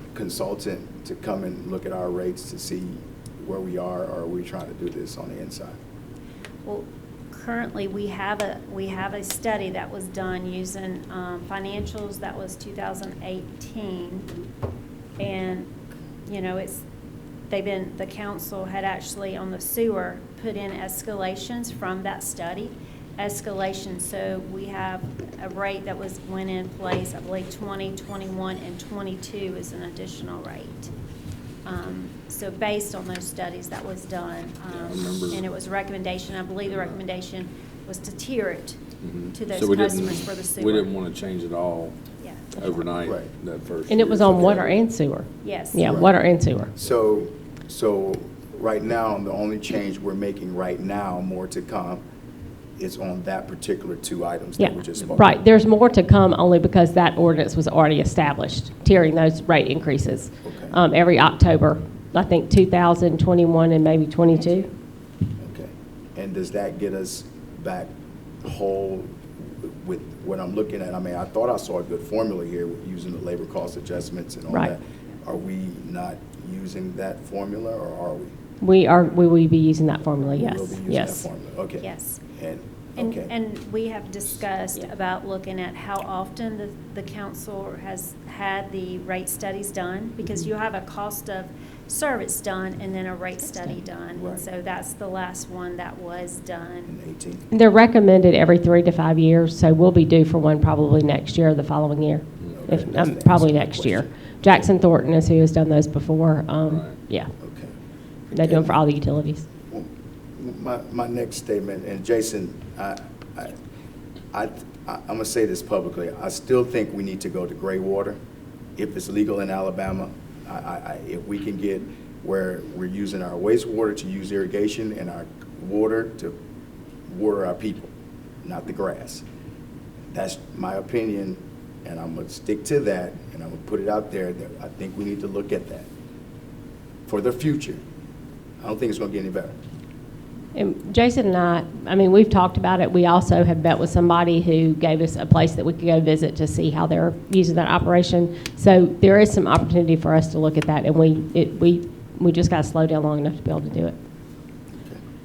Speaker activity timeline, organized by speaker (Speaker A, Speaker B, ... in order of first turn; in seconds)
Speaker A: 0.1-5.8, 43.0-43.3, 45.8-46.1, 46.8-52.0, 52.8-55.4, 60.5-60.8, 65.4-67.9, 68.4-78.3, 80.3-83.3, 94.2-94.4, 96.9-97.4, 102.5-104.7, 107.4-107.7, 108.3-108.8, 109.7-113.6, 114.3-118.2, 118.8-126.3, 127.1-127.9, 128.4-129.2, 130.1-135.9, 137.1-137.8, 138.6-139.6
Speaker B: 6.7-14.3, 15.2-15.7, 16.3-16.8, 17.5-30.9, 31.6-38.8, 39.3-40.9, 42.2-42.8, 45.4-45.9, 81.8-82.2, 83.0-96.9
Speaker C: 34.7-35.5, 39.0-42.0, 42.6-44.8, 106.7-107.0
Speaker D: 43.9-46.7, 54.6-64.7, 78.6-81.2, 93.4-93.8, 97.5-107.3, 108.3-109.4, 140.6-154.0